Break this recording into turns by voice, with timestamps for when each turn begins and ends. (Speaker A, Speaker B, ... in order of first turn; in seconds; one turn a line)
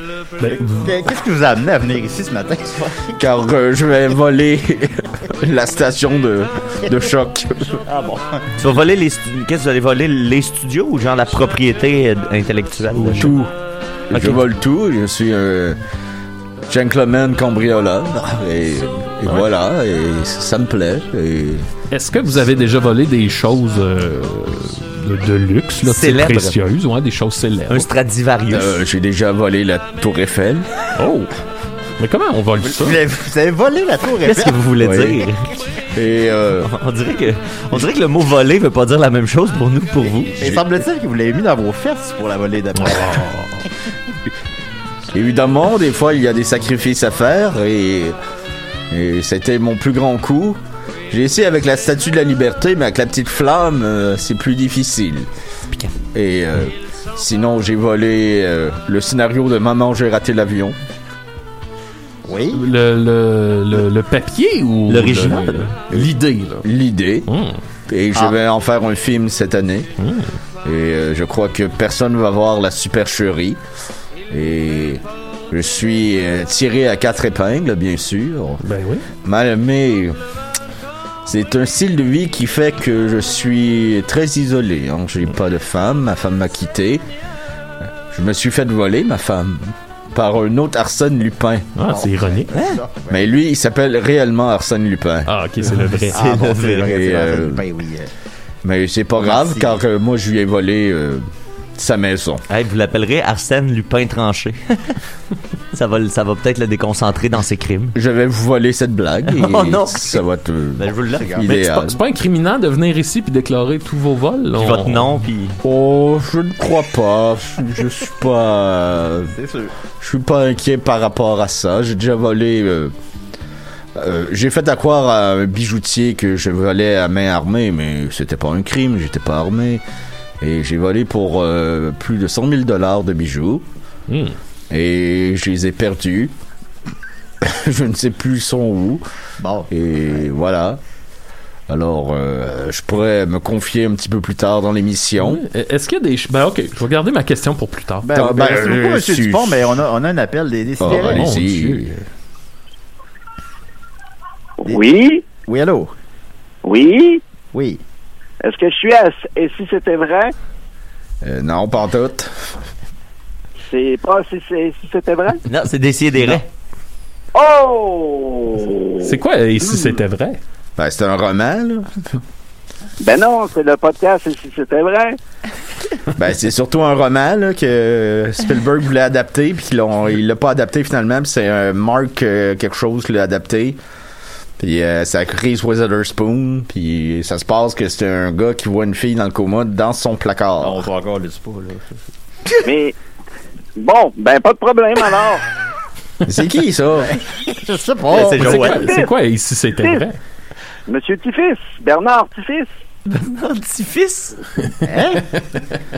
Speaker A: 0.4-0.9
Speaker B: 0.5-3.2
Speaker C: 3.2-7.8
Speaker B: 7.8-8.5
Speaker D: 8.6-13.3
Speaker A: 12.9-13.4
Speaker C: 13.2-13.5
Speaker C: 14.1-15.8
Speaker C: 16.7-21.7
Speaker A: 21.9-27.9
Speaker D: 25.8-26.6
Speaker D: 27.7-28.8
Speaker C: 28.5-30.7
Speaker A: 30.9-31.3
Speaker A: 32.0-33.0
Speaker B: 32.6-34.6
Speaker D: 34.2-35.4
Speaker C: 34.8-35.2
Speaker C: 35.9-36.7
Speaker D: 36.6-40.4
Speaker B: 40.4-43.2
Speaker C: 40.4-40.6
Speaker A: 42.8-43.7
Speaker C: 45.1-48.1
Speaker C: 48.9-55.3
Speaker C: 56.1-60.8
Speaker B: 62.2-62.6
Speaker A: 62.5-66.6
Speaker D: 64.9-66.1
Speaker C: 66.6-67.3
Speaker A: 67.3-67.6
Speaker C: 67.9-69.9
Speaker A: 70.0-70.3
Speaker C: 70.6-73.6
Speaker C: 74.3-78.6
Speaker A: 78.6-79.1
Speaker C: 79.2-80.2
Speaker C: 81.2-87.0
Speaker C: 88.1-91.7
Speaker A: 91.8-92.5
Speaker B: 91.9-93.3
Speaker D: 92.5-92.8
Speaker C: 93.1-95.3
Speaker A: 95.3-96.2
Speaker B: 96.1-98.1
Speaker D: 96.1-97.0
Speaker C: 96.6-97.6
Speaker C: 98.6-101.2
Speaker B: 99.2-99.8
Speaker C: 101.8-102.4
Speaker D: 102.5-105.0
Speaker D: 105.7-107.9
Speaker C: 107.9-112.0
Speaker D: 109.2-110.2
Speaker D: 110.8-111.5
Speaker B: 111.2-111.4
Speaker A: 111.5-115.1
Speaker D: 114.5-115.6
Speaker C: 115.6-119.3
Speaker B: 119.3-119.7
Speaker C: 120.0-122.9
Speaker C: 124.0-129.8
Speaker C: 130.4-133.6
Speaker A: 134.1-134.4
Speaker C: 134.7-136.3
Speaker C: 137.4-139.0
Speaker B: 139.4-139.7
Speaker C: 139.7-140.8
Speaker C: 141.7-145.4
Speaker A: 145.2-148.4
Speaker B: 148.0-151.2
Speaker C: 148.1-149.8
Speaker C: 150.8-152.0
Speaker A: 150.8-151.9
Speaker E: 154.6-155.2
Speaker B: 155.4-155.9
Speaker E: 156.6-157.2
Speaker B: 157.5-157.8
Speaker E: 158.4-160.3
Speaker C: 161.2-162.3
Speaker E: 163.7-165.4
Speaker D: 165.4-166.5
Speaker E: 167.3-169.2
Speaker A: 169.0-170.4
Speaker C: 170.8-172.1
Speaker E: 173.0-175.2
Speaker C: 176.1-183.8
Speaker C: 184.6-190.8
Speaker B: 190.6-191.9
Speaker E: 192.6-192.9
Speaker E: 193.8-195.4
Speaker C: 196.2-197.2
Speaker B: 197.1-198.9
Speaker D: 198.1-198.8
Speaker A: 198.3-200.2
Speaker E: 198.4-199.1
Speaker E: 200.9-202.7
Speaker D: 203.1-204.3
Speaker B: 204.8-205.4